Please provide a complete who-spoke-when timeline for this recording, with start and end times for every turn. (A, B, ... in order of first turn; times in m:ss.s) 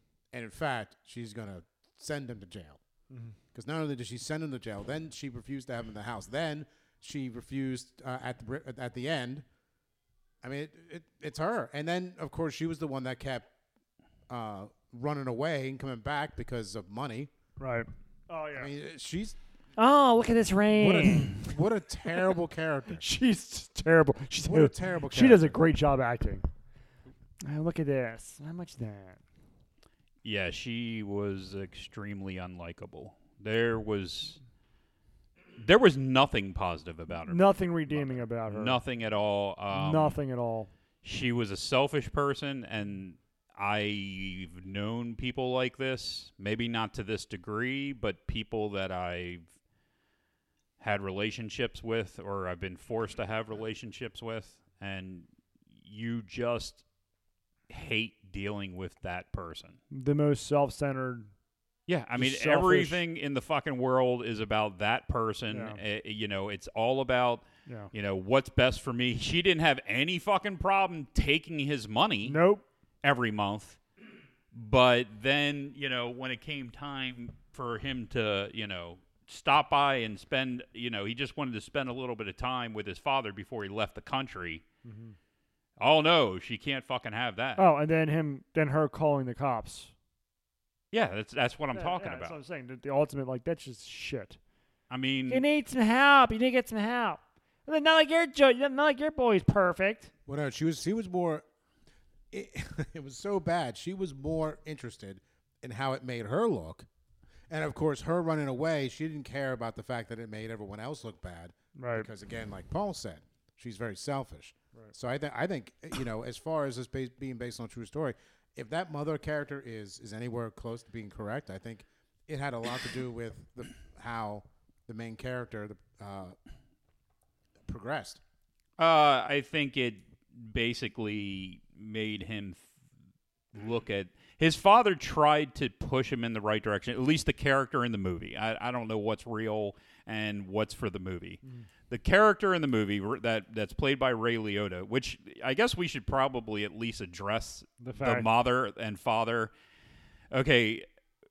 0:00.3-0:02.8 A
0:03.1-0:03.4 B
0:03.5-0:09.4 A
0:10.4-0:13.5 A
0:14.3-0:17.3 A
0:17.6-0:18.7 B
0:18.6-0:19.4 A
0:19.8-0:21.5 B
0:20.8-0:23.0 A
0:23.0-0:26.4 B
0:24.4-0:25.6 A
0:27.4-0:29.2 B
0:30.2-0:34.4 C
0:35.6-0:40.2 C
0:37.3-0:38.8 B
0:39.7-0:40.7 B
0:41.0-0:49.5 C
0:50.8-0:55.3 C
0:55.8-0:56.8 C
0:57.7-0:59.8 C
0:59.9-1:01.3 B
1:01.9-1:12.4 C
1:02.2-1:03.0 B
1:05.5-1:05.8 B
1:12.2-1:12.6 B
1:13.0-1:13.8 C
1:14.5-1:24.6 C
1:24.8-1:25.2 B
1:25.8-1:27.6 C
1:27.6-1:29.9 B
1:30.9-1:32.3 C
1:31.7-1:34.4 B
1:34.9-1:35.4 C
1:35.3-1:40.1 B
1:40.3-1:41.4 A
1:42.3-1:46.9 A
1:47.5-2:06.4 A
1:51.8-1:52.1 B
2:07.6-2:08.2 A
2:08.8-2:12.7 C
2:13.5-2:29.5 C
2:27.8-2:28.3 B
2:30.3-2:30.9 C